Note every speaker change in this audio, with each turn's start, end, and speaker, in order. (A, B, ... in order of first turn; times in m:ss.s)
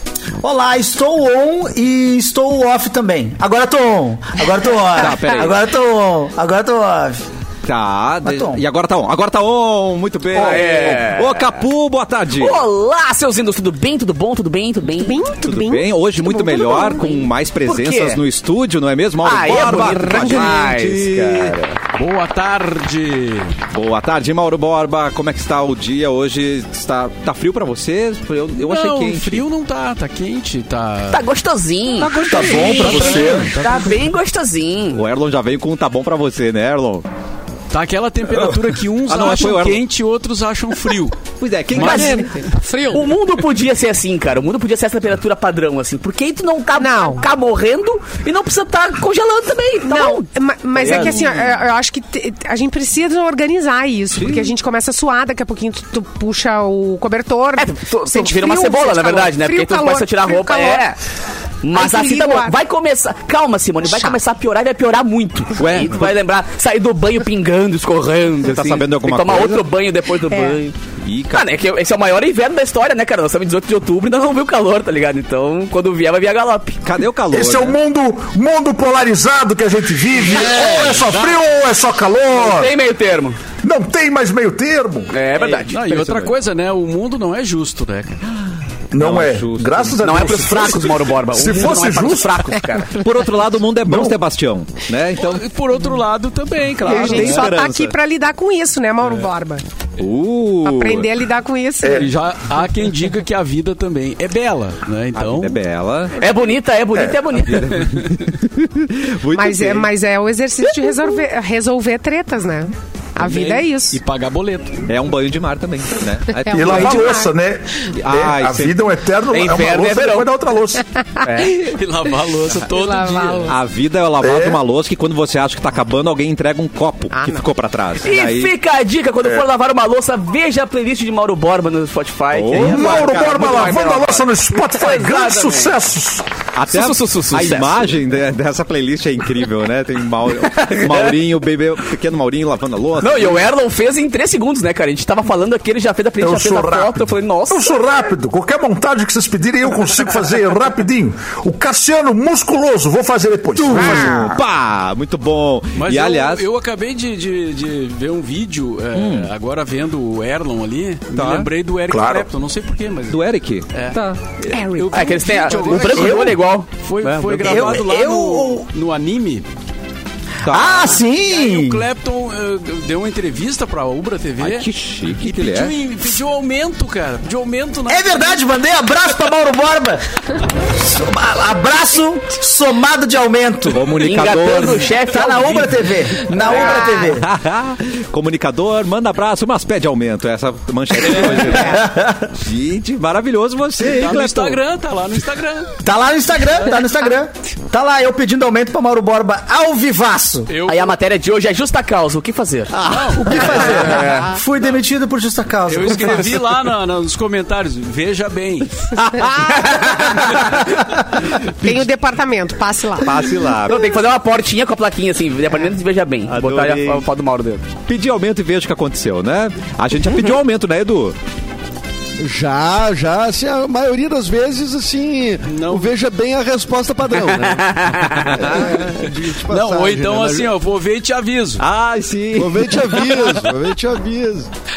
0:00.4-0:07.2 A
0:04.9-0:05.6 B
0:07.6-0:12.6 B
0:08.2-0:08.6 A
0:10.3-0:11.6 C
0:10.3-0:11.0 A
0:12.3-0:15.2 C
0:15.0-0:17.2 D
0:15.4-0:21.6 B
0:17.6-0:18.2 C
0:19.2-0:21.8 C
0:21.9-0:23.6 E
0:23.7-0:29.4 B
0:28.5-0:31.3 E
0:31.1-0:35.0 C
0:31.9-0:34.0 E
0:32.2-0:33.5 F
0:32.6-0:33.5 B
0:34.9-0:37.0 B
0:37.7-0:43.0 E
0:38.3-0:39.8 B
0:41.4-0:42.4 B
0:41.7-0:42.2 C
0:42.8-0:51.3 C
0:46.8-0:47.2 D
0:49.9-1:00.9 D
0:50.8-0:51.6 B
0:54.1-0:54.5 B
0:57.6-1:01.0 C
1:01.6-1:10.8 C
1:01.7-1:02.5 D
1:03.8-1:04.2 D
1:05.6-1:06.2 B
1:08.4-1:09.6 B
1:11.0-1:11.5 B
1:11.3-1:16.8 C
1:16.8-1:17.8 B
1:17.3-1:22.7 F
1:20.5-1:21.4 E
1:22.3-1:23.4 C
1:23.6-1:25.1 F
1:25.1-1:25.8 C
1:25.4-1:28.2 E
1:25.8-1:26.3 B
1:28.9-1:32.5 F
1:29.0-1:30.0 B
1:30.0-1:33.0 C
1:32.9-1:35.4 B
1:33.8-1:34.2 F
1:35.2-1:37.5 E
1:36.8-1:38.0 B
1:36.8-1:39.6 D
1:40.0-1:41.1 B
1:40.6-1:42.1 D
1:41.8-1:42.1 F
1:41.9-1:45.6 E
1:45.2-1:46.2 B
1:46.2-1:47.9 C
1:46.9-1:47.2 F
1:47.4-1:49.9 B
1:49.3-1:54.0 D
1:53.2-1:54.9 E
1:54.9-1:57.2 B
1:56.3-1:57.3 D
1:56.5-2:00.8 F
1:58.0-1:58.8 B
1:59.3-2:00.3 C
2:01.2-2:01.6 C
2:01.6-2:03.6 E
2:02.6-2:03.5 D
2:03.5-2:08.5 B
2:04.2-2:04.6 F
2:07.1-2:07.5 D
2:08.0-2:15.8 C
2:12.3-2:13.0 B
2:12.6-2:16.3 F
2:16.5-2:23.4 B
2:16.7-2:17.9 C
2:20.4-2:21.2 C
2:23.0-2:27.6 C
2:26.2-2:34.3 F
2:33.5-2:36.4 B
2:33.7-2:34.0 C
2:35.7-2:49.5 E
2:38.9-2:39.3 B
2:41.1-2:41.5 B
2:41.9-2:42.3 F
2:43.1-2:44.6 B
2:44.5-2:44.9 D
2:44.9-2:46.7 C
2:45.9-2:46.3 A
2:47.0-2:48.6 B
2:47.5-2:47.8 A
2:50.4-2:51.0 B
2:50.4-2:51.8 A
2:50.8-2:58.4 E
2:54.4-2:55.8 B
2:57.9-3:00.0 A
3:00.8-3:03.9 A
3:03.7-3:05.0 B
3:04.0-3:05.6 C
3:05.0-3:07.3 A
3:06.4-3:11.8 B
3:06.5-3:07.1 D
3:11.0-3:12.3 A
3:11.1-3:11.6 E
3:12.4-3:14.6 B
3:13.8-3:15.7 E
3:15.8-3:20.5 A
3:20.5-3:20.9 E
3:20.6-3:24.4 C
3:22.8-3:23.4 E
3:23.2-3:26.5 A
3:25.6-3:28.9 E
3:29.0-3:30.3 D
3:29.0-3:29.3 B
3:29.5-3:30.6 C
3:31.6-3:33.9 D
3:33.0-3:34.0 B
3:33.7-3:37.6 C
3:36.3-3:37.0 B
3:37.8-3:41.2 B
3:42.2-3:50.5 G
3:45.4-3:45.9 E
3:47.3-3:48.4 C
3:48.2-3:48.9 B
3:49.4-3:51.6 E
3:51.6-3:53.4 B
3:52.3-3:54.5 G